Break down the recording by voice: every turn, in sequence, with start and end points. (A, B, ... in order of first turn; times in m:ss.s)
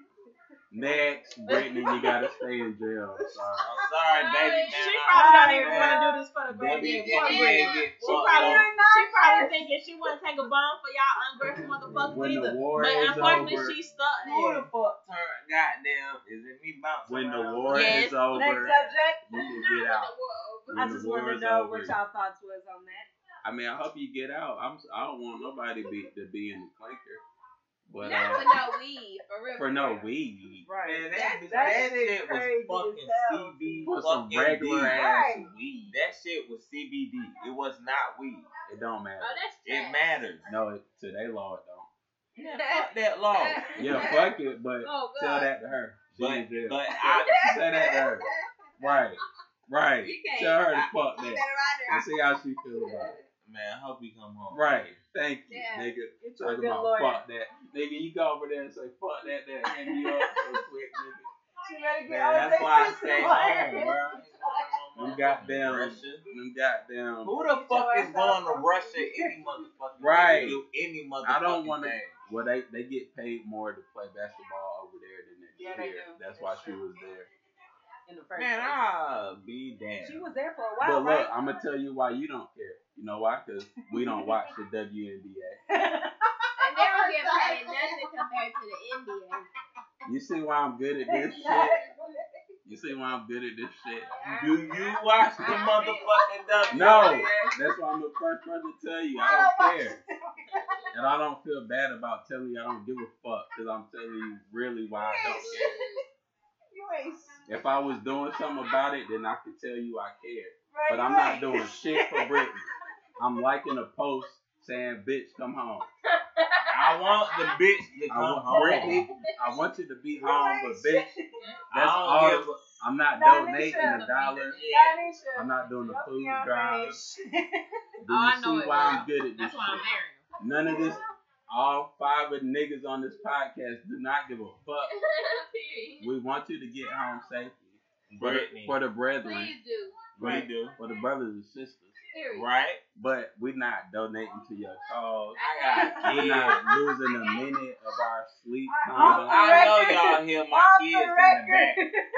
0:00.7-0:03.7 A
0:01.5-0:02.1 B
0:02.0-0:02.2 C
0:03.6-0:08.7 D
0:04.1-0:04.9 E
0:04.7-0:14.7 B
0:05.1-0:06.2 C
0:06.8-0:07.5 C
0:07.1-0:07.8 E
0:08.2-0:09.7 C
0:12.1-0:13.8 A
0:13.1-0:13.5 D
0:14.2-0:19.1 D
0:17.0-0:18.7 A
0:17.7-0:18.2 B
0:18.3-0:19.5 C
0:19.2-0:20.1 A
0:19.3-0:20.9 E
0:20.7-0:21.9 A
0:20.7-0:23.1 C
0:23.4-0:27.2 A
0:27.9-0:28.6 A
0:28.0-0:30.1 E
0:29.6-0:30.6 A
0:30.6-0:33.9 C
0:30.8-0:38.4 D
0:31.3-0:31.9 E
0:33.8-0:35.0 A
0:34.9-0:35.5 C
0:38.6-0:39.4 A
0:39.2-0:40.5 E
0:39.6-0:40.5 D
0:40.4-0:41.9 A
0:42.4-0:44.2 D
0:42.4-0:44.3 E
0:43.8-0:48.2 A
0:44.8-0:45.5 E
0:46.2-0:47.7 D
0:47.1-0:48.4 E
0:48.8-0:53.2 A
0:50.0-0:52.1 E
0:52.8-0:53.2 E
0:53.4-0:54.9 D
0:54.5-1:01.3 A
0:55.5-0:56.0 E
0:56.2-0:57.2 C
1:01.6-1:04.6 C
1:02.0-1:06.2 D
1:05.0-1:07.3 A
1:07.2-1:12.2 D
1:07.4-1:09.4 C
1:10.0-1:10.6 A
1:11.2-1:17.3 A
1:15.6-1:16.8 C
1:18.1-1:18.8 C
1:18.4-1:20.3 D
1:20.0-1:21.3 C
1:20.8-1:25.6 A
1:23.8-1:24.4 C
1:25.7-1:28.0 C
1:26.6-1:29.5 E
1:30.0-1:31.8 A
1:31.0-1:32.2 C
1:32.6-1:34.1 A
1:34.0-1:37.5 E
1:34.2-1:37.5 D
1:36.7-1:40.0 A
1:39.2-1:40.8 C
1:40.5-1:40.9 E
1:40.9-1:45.8 A
1:45.0-1:45.9 C
1:45.3-1:46.0 E
1:46.7-1:47.6 C
1:47.5-1:55.8 A
1:50.7-1:52.5 C
1:56.2-1:57.6 E
1:56.7-1:59.0 D
1:58.1-2:01.0 A
1:58.6-1:59.0 C
1:58.7-1:59.6 E
2:00.2-2:01.4 C
2:01.7-2:02.6 D
2:01.7-2:04.6 A
2:03.1-2:07.8 C
2:03.7-2:04.6 B
2:04.5-2:05.1 D
2:05.3-2:07.0 A
2:08.0-2:09.8 A
2:08.1-2:10.2 B
2:10.4-2:14.9 A
2:10.7-2:11.0 C
2:14.8-2:16.1 E
2:16.0-2:19.5 A
2:18.1-2:18.8 D
2:19.2-2:20.1 E
2:20.1-2:20.8 D
2:20.2-2:22.0 A
2:22.1-2:22.5 E
2:22.3-2:22.8 D
2:23.0-2:25.4 A
2:25.3-2:26.5 E
2:25.4-2:26.6 D
2:25.7-2:26.4 C
2:26.0-2:29.7 A
2:27.0-2:27.5 E
2:28.7-2:32.0 C
2:29.0-2:31.8 D